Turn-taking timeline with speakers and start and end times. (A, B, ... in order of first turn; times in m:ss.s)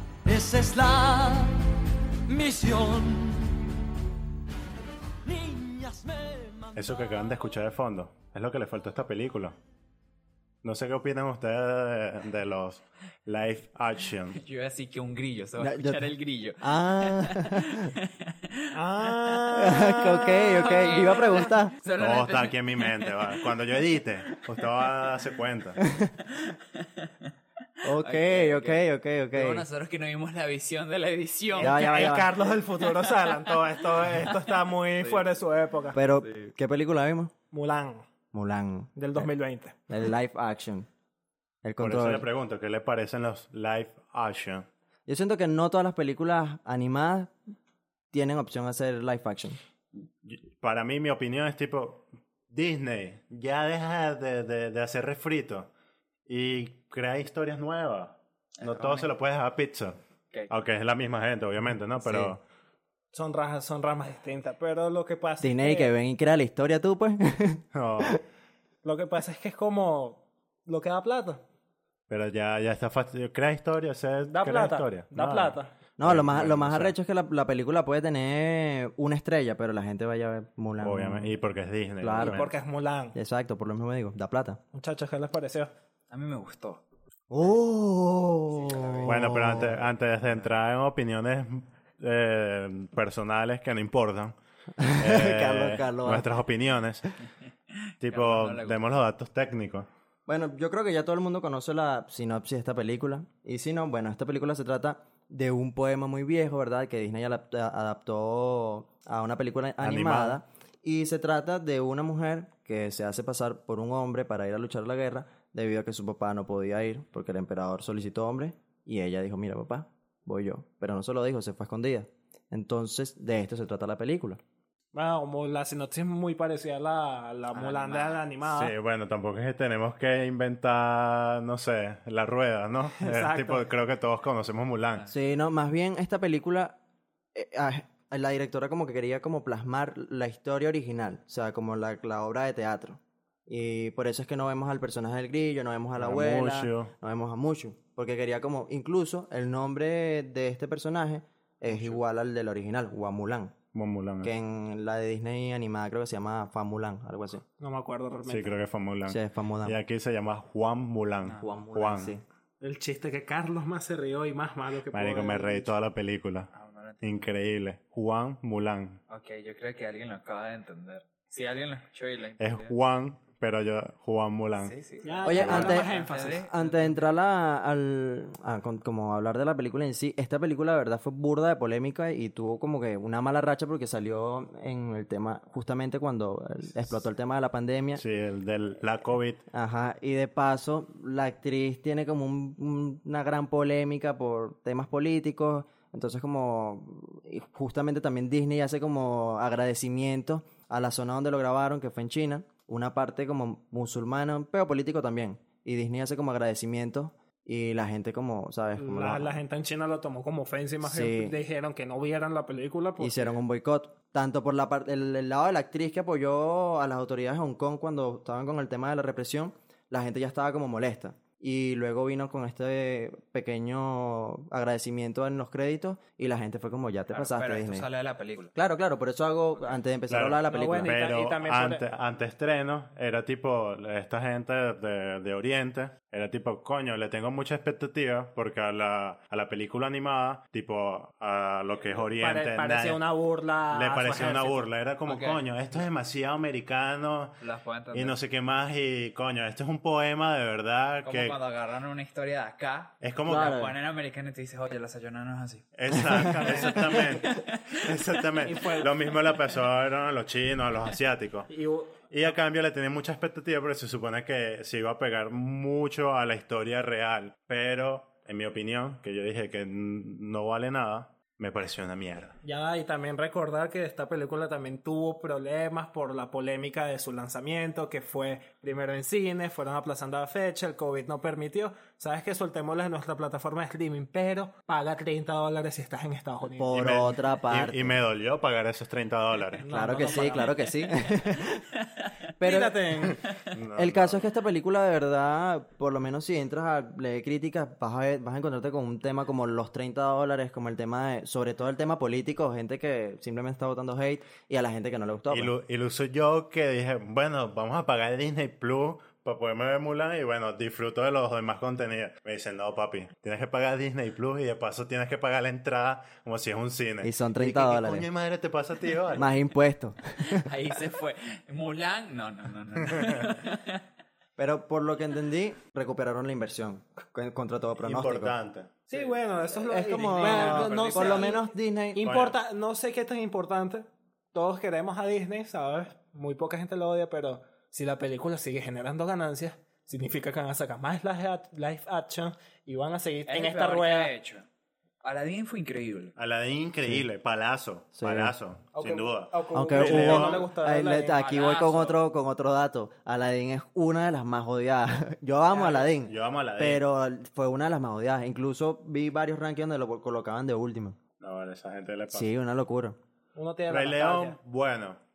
0:00.2-0:03.7 A
0:05.2-0:07.1 A
0:06.8-0:09.6 B
0:10.6-0:14.4 B
0:14.4-0:19.2 C
0:15.6-0:17.9 D
0:18.7-0:21.4 E
0:19.6-0:21.8 D
0:20.5-0:23.6 C
0:22.0-0:25.8 B
0:25.8-0:26.1 D
0:26.4-0:26.9 C
0:27.8-0:29.7 D
0:27.9-0:31.9 C
0:31.6-0:32.3 D
0:31.6-0:36.0 E
0:35.0-0:35.2 C
0:35.9-0:37.3 D
0:36.2-0:36.5 C
0:37.5-0:38.1 E
0:38.3-0:39.3 D
0:39.0-0:39.8 E
0:39.9-0:40.9 D
0:41.6-0:42.3 D
0:41.8-0:44.7 B
0:45.1-0:47.4 D
0:48.1-0:49.6 D
0:50.2-0:55.7 B
0:56.3-1:00.0 B
0:58.6-0:59.1 C
1:00.5-1:02.4 B
1:02.0-1:02.3 D
1:03.1-1:05.9 E
1:05.4-1:08.2 D
1:07.7-1:08.2 B
1:08.8-1:11.4 E
1:12.1-1:17.0 B
1:14.3-1:15.7 E
1:16.0-1:21.4 D
1:20.8-1:22.5 B
1:22.0-1:22.5 D
1:22.2-1:23.2 E
1:23.2-1:24.6 D
1:24.7-1:25.7 E
1:26.1-1:26.8 C
1:27.3-1:29.8 D
1:28.6-1:29.2 C
1:29.1-1:34.4 B
1:34.8-1:36.3 D
1:35.0-1:37.1 B
1:38.0-1:38.8 C
1:38.0-1:39.9 B
1:40.3-2:04.4 D
1:49.8-1:50.4 B
2:04.9-2:08.7 E
2:07.5-2:08.2 C
2:08.4-2:15.0 B
2:13.0-2:13.6 E
2:15.1-2:16.8 D
2:17.4-2:33.6 D
2:26.0-2:26.9 B
2:31.7-2:32.0 C
2:33.7-2:34.3 B
2:34.2-2:37.4 D
2:37.6-2:38.6 E
2:38.3-2:42.2 B
2:39.1-2:39.8 D
2:41.2-2:41.5 C
2:41.4-2:42.2 D
2:42.6-2:45.7 E
2:44.9-2:46.5 B
2:46.5-2:47.3 C
2:47.0-2:49.0 B
2:49.1-2:52.7 C
2:52.4-2:54.7 B
2:54.6-2:57.1 C
2:55.0-2:56.5 E
2:55.2-3:08.0 D
2:55.4-2:55.8 B
3:08.0-3:09.4 B
3:09.5-3:29.4 D
3:28.8-3:33.4 E
3:30.8-3:31.4 D
3:33.0-3:47.9 D
3:47.1-3:48.5 C
3:48.6-3:51.0 D
3:50.1-4:03.0 B
3:50.5-3:51.8 E
4:02.0-4:04.6 E
4:03.7-4:11.4 B
4:05.1-4:05.8 C
4:07.4-4:08.2 C
4:11.0-4:18.8 C
4:13.0-4:13.6 B
4:13.3-4:13.8 D
4:15.7-4:21.5 B
4:16.1-4:16.4 D
4:18.5-4:18.8 E
4:21.5-4:22.0 E
4:22.1-4:32.4 B
4:32.4-4:46.7 E
4:46.6-4:48.0 D
4:46.7-4:49.7 B
4:49.6-4:50.5 E
4:49.7-4:51.6 D
4:52.4-4:53.2 D
4:52.4-4:53.2 E
4:53.5-4:54.3 B
4:53.8-5:05.5 D
5:05.3-5:19.3 B
5:17.0-5:18.1 D
5:19.2-5:20.5 D
5:20.4-5:23.8 C
5:24.4-5:28.4 D
5:27.8-5:28.9 B
5:28.9-5:31.4 E
5:29.7-5:32.0 D
5:30.1-5:31.4 C
5:32.0-5:44.1 E
5:32.0-5:32.4 B
5:43.3-5:44.5 C
5:45.0-5:46.1 C
5:46.2-5:50.4 B
5:48.0-5:48.4 D
5:48.8-5:51.2 E
5:49.5-6:01.0 D
5:51.1-5:52.0 C
5:55.5-5:55.9 E
5:56.0-5:56.8 B
6:01.2-6:02.3 B
6:02.1-6:03.0 D
6:03.4-6:04.4 E
6:03.7-6:05.0 B